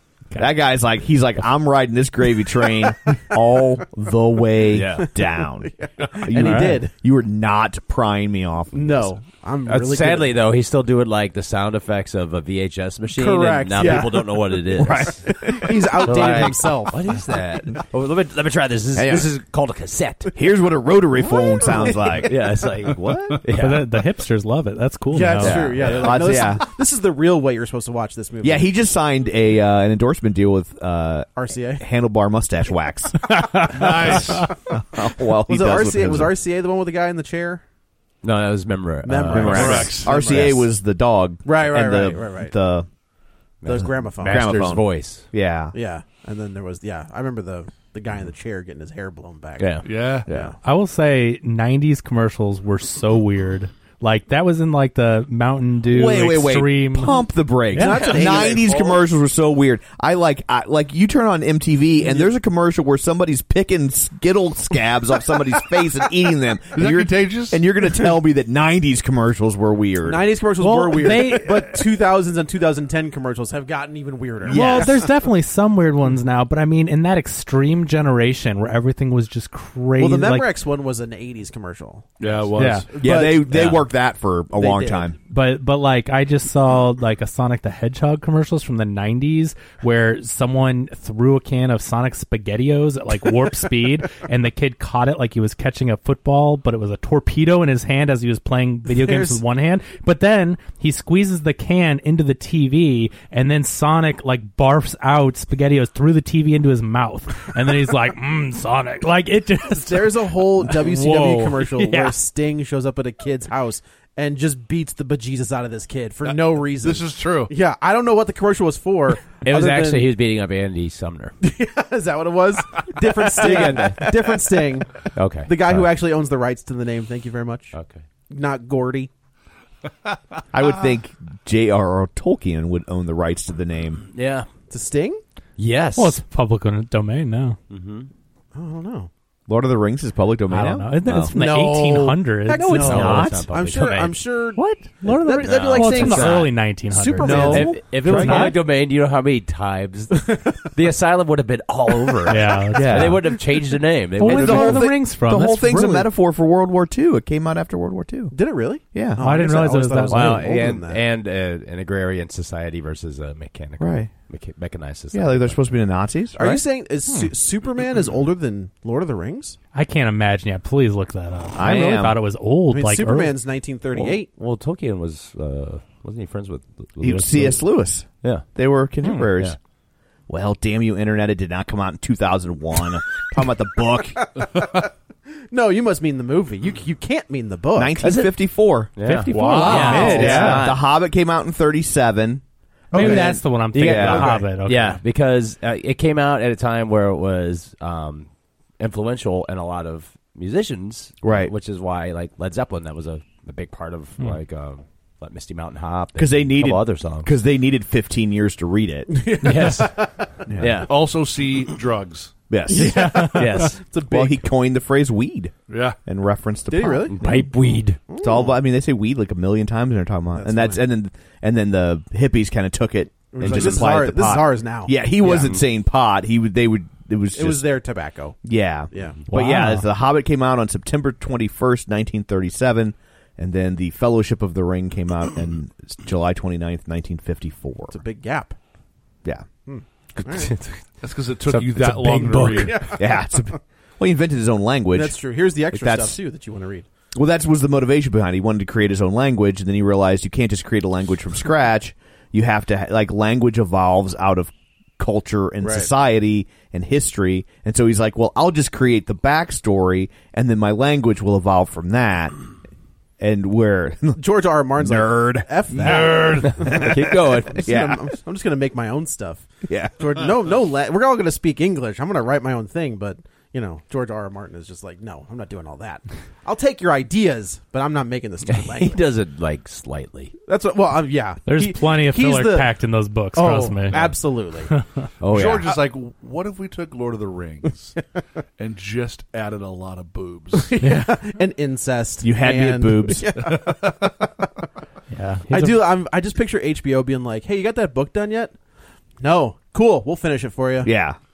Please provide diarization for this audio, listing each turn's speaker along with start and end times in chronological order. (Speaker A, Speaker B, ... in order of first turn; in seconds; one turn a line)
Speaker A: 0.4-9.1
Speaker B: 5.2-6.9
Speaker C: 6.4-6.7
Speaker B: 8.7-10.3
Speaker D: 9.7-15.3
Speaker B: 13.1-17.4
Speaker A: 14.8-16.6
Speaker D: 16.0-20.3
Speaker A: 18.9-19.3
Speaker A: 20.4-22.5
Speaker B: 21.5-21.8
Speaker D: 21.7-23.9
Speaker C: 23.5-25.6
Speaker B: 25.1-28.7
Speaker D: 25.4-26.2
Speaker A: 25.8-26.7
Speaker A: 28.4-36.4
Speaker B: 31.4-31.8
Speaker C: 33.5-33.8
Speaker E: 33.7-34.5
Speaker B: 35.4-37.6
Speaker D: 38.2-40.5
Speaker B: 39.0-40.7
Speaker A: 39.3-42.9
Speaker E: 39.4-40.2
Speaker B: 41.5-42.5
Speaker D: 43.6-45.2
Speaker B: 43.6-44.6
Speaker A: 44.2-45.8
Speaker B: 45.7-50.5
Speaker D: 49.6-49.8
Speaker E: 49.9-50.3
Speaker A: 50.3-50.5
Speaker C: 50.6-58.1
Speaker A: 55.9-70.2
Speaker B: 57.7-58.9
Speaker E: 58.7-59.0
Speaker B: 62.0-62.3
Speaker E: 66.7-67.6
Speaker B: 70.0-75.1
Speaker C: 70.6-71.8
Speaker A: 74.5-75.0
Speaker C: 74.5-80.5
Speaker B: 80.0-83.7
Speaker E: 82.2-82.9
Speaker C: 82.6-82.9
Speaker A: 83.0-85.2
Speaker B: 84.6-85.1
Speaker C: 85.3-112.2
Speaker B: 98.9-99.4
Speaker B: 109.7-120.1
Speaker E: 116.3-117.5
Speaker D: 119.3-121.3
Speaker B: 121.4-127.8
Speaker D: 123.2-124.4
Speaker D: 125.1-125.9
Speaker D: 127.7-128.0
Speaker B: 128.3-129.1
Speaker A: 130.5-134.1
Speaker D: 134.2-134.5
Speaker B: 134.7-135.2
Speaker D: 135.6-136.2
Speaker C: 136.0-137.6
Speaker D: 137.7-138.1
Speaker B: 138.5-139.1
Speaker A: 139.5-141.3
Speaker C: 140.5-143.1
Speaker B: 141.3-147.8
Speaker A: 142.6-143.5
Speaker D: 142.6-144.2
Speaker C: 144.6-148.6
Speaker D: 145.3-146.5
Speaker A: 147.2-148.6
Speaker D: 147.2-154.9
Speaker B: 150.2-150.5
Speaker C: 152.3-153.2
Speaker A: 152.8-153.3
Speaker C: 154.2-156.1
Speaker A: 154.2-158.3
Speaker B: 158.3-161.0
Speaker A: 158.9-159.2
Speaker C: 159.2-160.4
Speaker D: 160.1-165.8
Speaker A: 163.8-164.1
Speaker A: 165.1-166.6
Speaker B: 166.3-169.6
Speaker C: 169.7-173.3
Speaker A: 171.6-172.2
Speaker B: 172.7-174.3
Speaker D: 173.9-177.6
Speaker A: 177.0-179.6
Speaker A: 180.3-184.3
Speaker B: 184.2-184.9
Speaker B: 185.5-188.0
Speaker A: 187.8-188.9
Speaker D: 188.0-188.3
Speaker D: 189.0-190.8
Speaker C: 189.0-190.7
Speaker E: 189.3-190.4
Speaker A: 190.0-194.4
Speaker B: 192.9-193.4
Speaker C: 192.9-195.0
Speaker D: 193.0-198.3
Speaker D: 198.8-207.3
Speaker A: 201.2-201.5
Speaker A: 206.2-209.5
Speaker B: 209.1-210.5
Speaker D: 209.4-210.0
Speaker A: 210.5-210.8
Speaker D: 210.6-210.9
Speaker E: 210.8-212.3
Speaker A: 212.5-213.2
Speaker B: 212.7-214.4
Speaker D: 213.1-213.8
Speaker A: 214.0-217.3
Speaker E: 215.7-216.0
Speaker B: 216.7-217.3
Speaker D: 217.1-218.0
Speaker B: 218.1-218.6
Speaker A: 218.2-227.7
Speaker B: 220.3-220.8
Speaker B: 223.3-225.6
Speaker E: 223.4-224.0
Speaker B: 227.3-228.4
Speaker A: 228.4-238.0
Speaker B: 228.9-229.2
Speaker C: 229.3-229.9
Speaker B: 237.9-238.6
Speaker B: 239.7-240.6
Speaker D: 240.2-240.8
Speaker E: 241.0-242.9
Speaker D: 241.5-242.8
Speaker B: 242.4-243.6
Speaker A: 243.0-246.2
Speaker B: 244.9-246.9
Speaker A: 247.1-262.4
Speaker B: 255.6-255.9
Speaker A: 263.2-264.2
Speaker B: 264.2-269.5
Speaker A: 264.8-266.1
Speaker E: 265.8-266.6
Speaker D: 266.2-267.7
Speaker A: 266.6-268.1
Speaker A: 269.7-270.0
Speaker B: 270.0-279.0
Speaker D: 278.5-280.3
Speaker B: 280.5-282.7
Speaker C: 281.5-284.1
Speaker B: 283.3-284.8
Speaker D: 285.2-285.7
Speaker E: 285.3-288.0
Speaker E: 288.6-290.7
Speaker B: 290.6-294.5
Speaker C: 290.8-291.1
Speaker A: 292.2-293.3
Speaker E: 293.5-293.9
Speaker C: 295.1-295.8
Speaker B: 295.5-298.6
Speaker B: 299.2-300.9
Speaker A: 300.8-301.2